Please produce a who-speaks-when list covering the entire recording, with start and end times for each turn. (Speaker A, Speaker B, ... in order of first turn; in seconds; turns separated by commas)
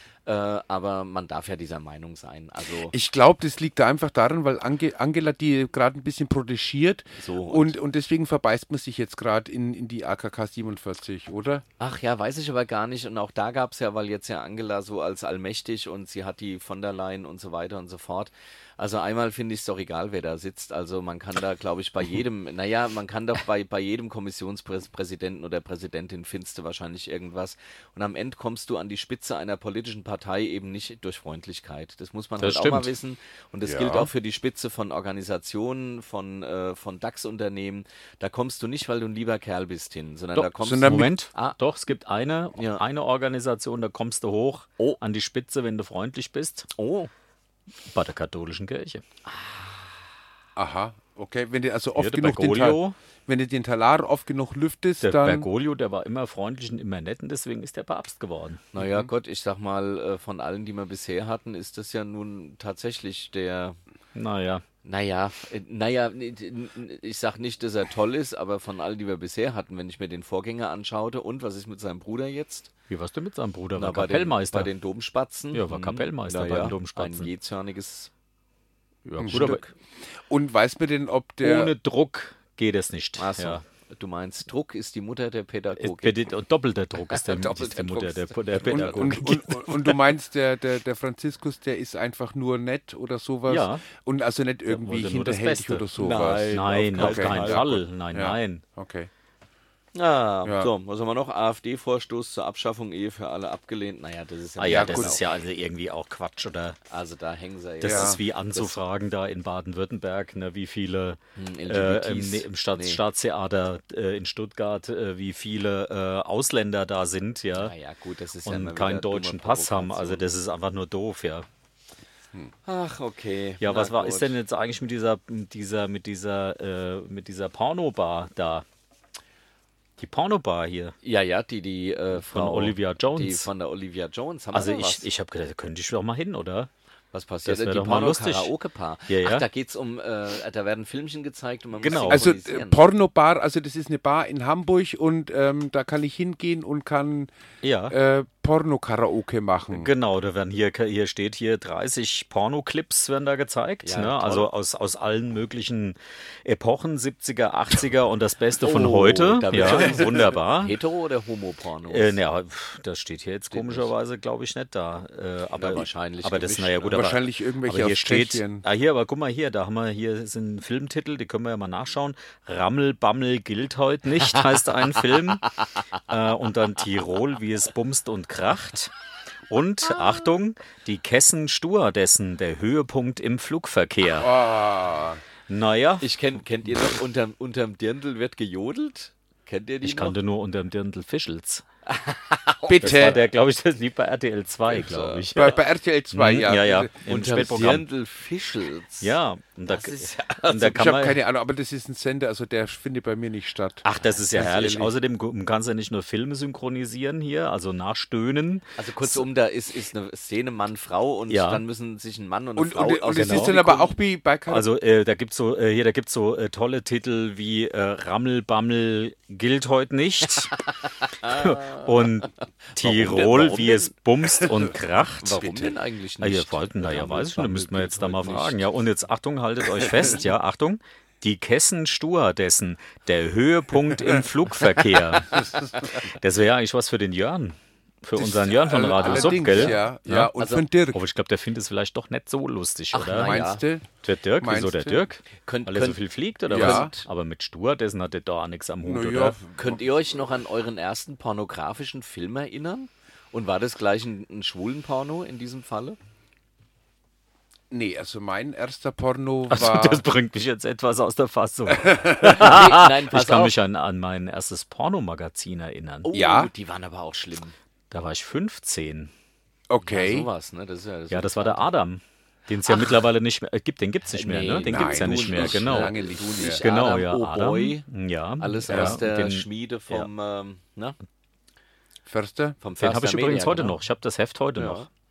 Speaker A: 0.3-3.0, Speaker B: 2.9-11.6, Speaker A: 7.2-7.8, Speaker A: 11.8-41.6, Speaker C: 32.4-32.9, Speaker B: 33.6-34.1, Speaker C: 40.4-46.7, Speaker B: 40.6-41.1, Speaker A: 42.6-42.8, Speaker A: 46.7-47.1, Speaker C: 47.9-49.0, Speaker A: 49.3-49.6, Speaker B: 50.6-55.5, Speaker C: 52.0-53.0, Speaker C: 55.0-58.6, Speaker A: 58.7-63.8, Speaker B: 58.8-59.1, Speaker C: 64.2-64.6, Speaker A: 64.8-72.7, Speaker C: 72.9-74.7, Speaker A: 73.8-78.1, Speaker C: 75.5-77.3, Speaker C: 79.1-79.6, Speaker B: 79.2-79.6, Speaker A: 79.2-79.7, Speaker B: 80.3-81.7, Speaker C: 81.4-83.6, Speaker A: 83.2-86.2, Speaker C: 85.8-89.9, Speaker A: 87.1-89.2, Speaker B: 88.7-99.1, Speaker C: 93.5-93.8, Speaker C: 94.7-95.8, Speaker A: 96.0-97.8, Speaker C: 96.5-98.6, Speaker A: 100.0-105.2, Speaker C: 104.6-106.8, Speaker B: 104.7-105.2, Speaker A: 106.9-108.8, Speaker C: 107.8-117.7, Speaker B: 107.8-108.2, Speaker A: 111.4-113.0, Speaker A: 117.5-120.3, Speaker C: 118.4-121.5, Speaker A: 122.7-124.4, Speaker C: 123.6-128.7, Speaker C: 130.0-130.9, Speaker A: 131.0-135.1, Speaker C: 132.2-133.5, Speaker C: 134.5-136.7, Speaker A: 137.1-142.8, Speaker C: 137.4-138.5, Speaker C: 139.1-139.4, Speaker C: 141.8-142.3, Speaker B: 142.1-147.3, Speaker C: 147.6-147.9, Speaker B: 147.9-149.9, Speaker C: 149.7-160.8, Speaker A: 153.8-154.5, Speaker A: 158.6-162.2, Speaker C: 161.9-175.5, Speaker A: 163.5-163.9, Speaker A: 165.6-167.2, Speaker B: 166.9-168.6, Speaker C: 176.1-178.9, Speaker C: 179.5-184.3, Speaker B: 184.2-185.2, Speaker C: 185.5-186.1, Speaker A: 186.0-190.2, Speaker C: 189.8-191.7, Speaker A: 191.9-193.2, Speaker B: 192.7-193.2, Speaker C: 192.8-195.6, Speaker A: 194.7-195.3, Speaker B: 195.3-197.0, Speaker C: 196.1-197.8, Speaker A: 197.1-199.2, Speaker C: 199.0-201.2, Speaker A: 199.7-200.9, Speaker B: 200.7-204.9, Speaker C: 203.8-209.2, Speaker A: 208.8-213.9, Speaker C: 211.3-211.6, Speaker B: 212.6-214.7, Speaker C: 213.2-213.6, Speaker C: 214.5-220.6, Speaker A: 221.2-221.9, Speaker C: 221.2-225.5, Speaker A: 222.7-223.9, Speaker A: 225.2-228.7, Speaker B: 225.4-225.7, Speaker C: 226.2-235.5, Speaker C: 236.2-240.3, Speaker B: 238.2-241.0, Speaker A: 239.0-240.7, Speaker C: 240.9-243.4, Speaker A: 242.9-243.6, Speaker B: 243.2-243.8, Speaker C: 244.0-249.4, Speaker B: 244.4-245.1, Speaker A: 245.4-247.1, Speaker B: 246.5-246.9, Speaker B: 248.8-249.8, Speaker A: 249.6-256.0, Speaker B: 257.7-260.0, Speaker C: 259.5-266.1, Speaker B: 261.7-262.3, Speaker A: 262.2-263.6, Speaker A: 266.1-267.6, Speaker B: 266.1-266.5, Speaker C: 267.9-269.1, Speaker B: 269.7-270.3, Speaker A: 269.8-271.7, Speaker C: 271.1-276.0, Speaker A: 274.1-277.8, Speaker B: 274.6-276.6, Speaker C: 276.6-280.1, Speaker A: 278.4-281.0, Speaker B: 278.7-279.0, Speaker B: 282.1-282.6, Speaker A: 282.6-283.8, Speaker C: 282.8-284.9, Speaker A: 284.6-284.9